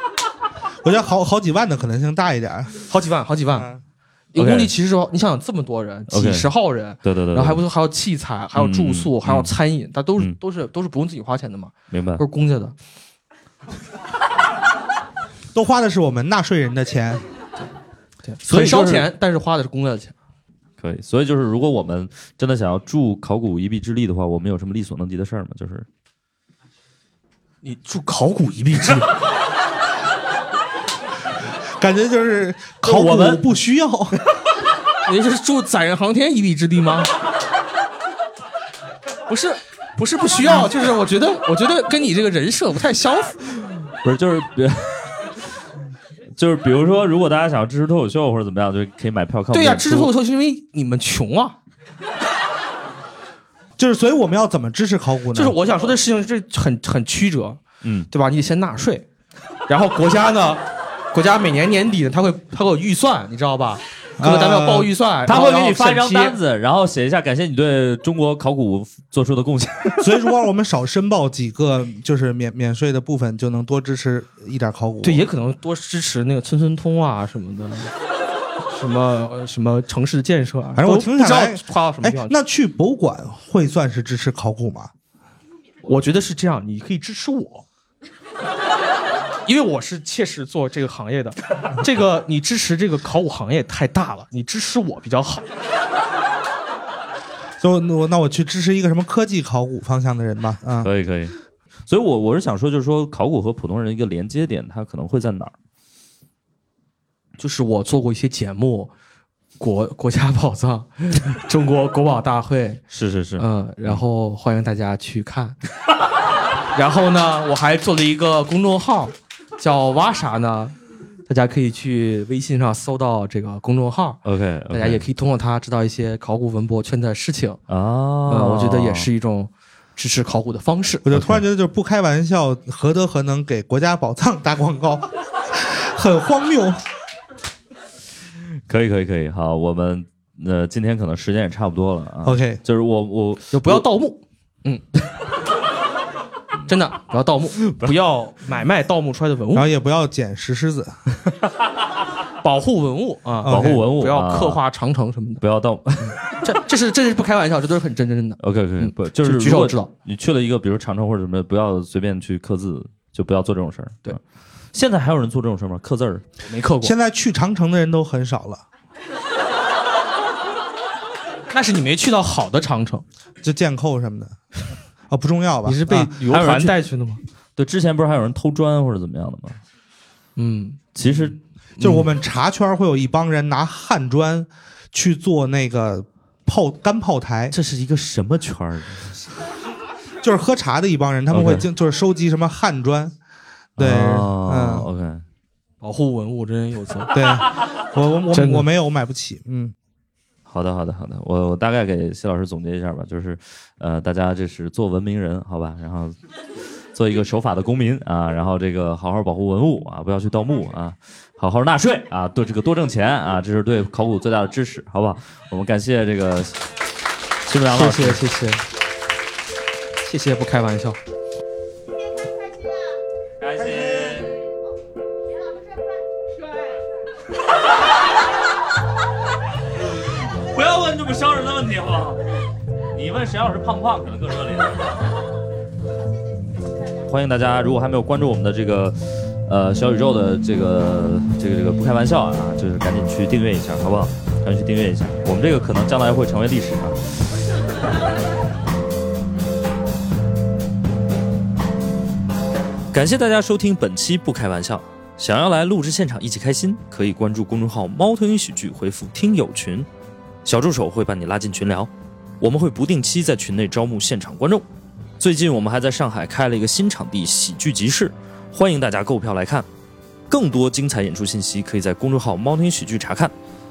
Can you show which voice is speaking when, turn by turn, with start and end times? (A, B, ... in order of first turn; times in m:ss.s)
0:00.8-0:02.8 A
0:02.9-0:03.7 B
0:04.3-0:12.8 B
0:04.4-0:04.7 C
0:06.1-0:06.5 C
0:07.0-0:07.6 C
0:08.6-0:09.5 C
0:11.9-0:12.2 C
0:15.5-0:17.2 A
0:18.2-0:20.2 B
0:18.5-0:19.1 C
0:20.8-0:25.9 C
0:27.6-0:29.1 B
0:31.7-0:34.2 A
0:32.8-0:33.4 C
0:35.0-0:37.1 B
0:39.3-0:43.7 B
0:44.0-0:45.5 C
0:46.4-0:50.1 C
0:49.5-0:51.6 B
0:53.8-0:55.6 A
0:55.3-0:59.1 B
0:57.8-0:58.1 C
0:59.7-1:06.4 B
1:04.2-1:04.9 A
1:05.3-1:10.3 C
1:10.0-1:15.2 A
1:15.0-1:17.9 B
1:18.7-1:22.4 B
1:20.8-1:24.9 A
1:25.8-1:27.6 B
1:29.4-1:35.5 B
1:37.6-1:40.9 A
1:40.8-1:45.5 C
1:47.4-1:48.9 B
1:49.6-1:52.8 B
1:52.9-1:54.0 C
1:53.4-1:55.6 B
1:56.7-2:00.8 B
2:01.3-2:04.2 B
2:04.2-2:05.0 C
2:04.7-2:07.6 B
2:07.7-2:09.1 C
2:08.3-2:11.4 B
2:11.0-2:16.8 A
2:18.7-2:23.8 C
2:22.2-2:22.6 A
2:23.5-2:24.8 B
2:26.7-2:29.7 B
2:29.5-2:31.2 A
2:32.4-2:35.4 B
2:33.4-2:33.8 A
2:33.5-2:34.6 C
2:35.4-2:36.5 C
2:36.0-2:39.9 B
2:38.4-2:44.2 C
2:44.7-2:46.2 C
2:46.4-2:47.0 B
2:46.8-2:48.6 A
2:51.5-2:53.0 B
2:53.4-2:54.4 A
2:55.1-2:56.1 A
2:55.6-2:57.2 B
2:56.0-2:56.8 C
2:57.6-2:59.6 C
3:00.4-3:02.1 B
3:01.0-3:01.4 C
3:01.8-3:07.6 A
3:07.5-3:09.3 C
3:10.2-3:13.1 A
3:11.3-3:11.6 C
3:13.8-3:14.9 A
3:13.8-3:15.2 C
3:15.8-3:17.2 B
3:17.1-3:19.8 A
3:18.3-3:18.7 B
3:20.5-3:36.6 C
3:37.5-3:38.2 C
3:37.7-3:38.6 B
3:40.0-3:41.0 B
3:43.4-3:44.4 C
3:50.1-3:52.2 C
3:52.9-3:55.1 C
3:57.0-4:07.2 C
4:12.9-4:19.9 C
4:20.4-4:21.9 C
4:22.4-4:24.7 C
4:25.2-4:29.7 C
4:30.3-4:33.3 C